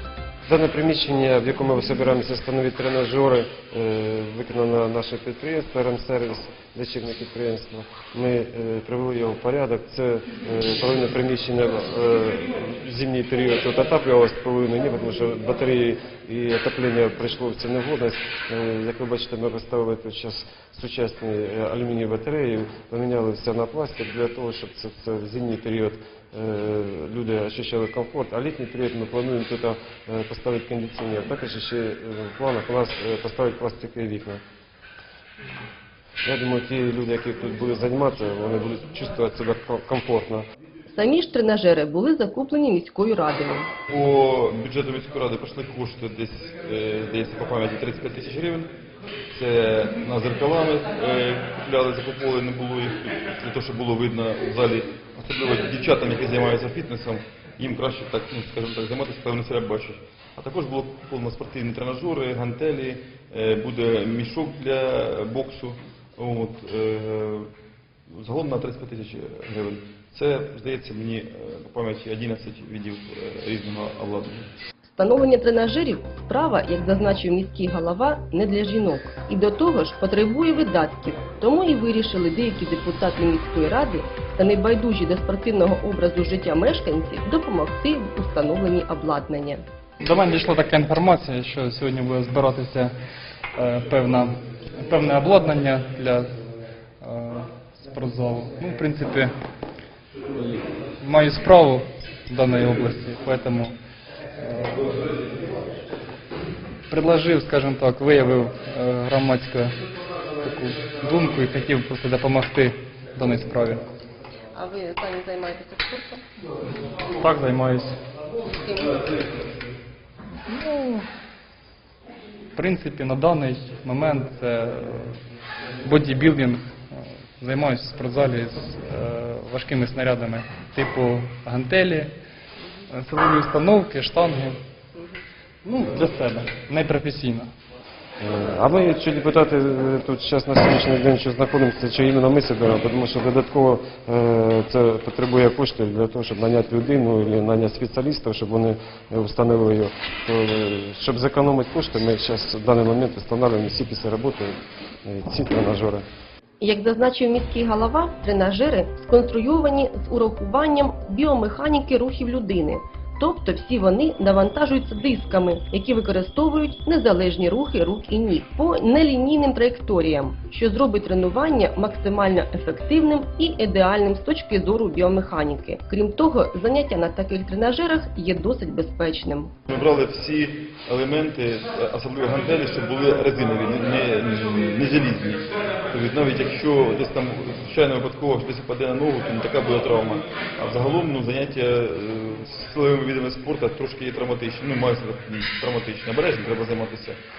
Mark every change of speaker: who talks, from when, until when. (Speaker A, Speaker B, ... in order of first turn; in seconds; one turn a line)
Speaker A: 0.5-34.4
Speaker A: 36.2-40.4
Speaker B: 40.9-43.7
Speaker C: 43.9-48.7
Speaker C: 49.3-67.5
Speaker C: 68.2-74.5
Speaker B: 75.0-89.6
Speaker D: 90.0-92.9
Speaker D: 93.5-96.3
Speaker D: 97.0-99.3
Speaker D: 101.0-103.7
Speaker D: 104.4-104.9
Speaker D: 106.9-109.8
Speaker D: 110.4-113.8
Speaker B: 114.5-116.2
Speaker D: 117.2-118.0
Speaker B: 118.5-119.2
Speaker D: 120.5-121.0
Speaker D: 122.5-125.2
Speaker D: 125.8-132.1
Speaker D: 132.9-134.6
Speaker D: 135.7-137.5
Speaker A: 138.2-156.0
Speaker B: 156.6-179.5
Speaker C: 179.7-197.2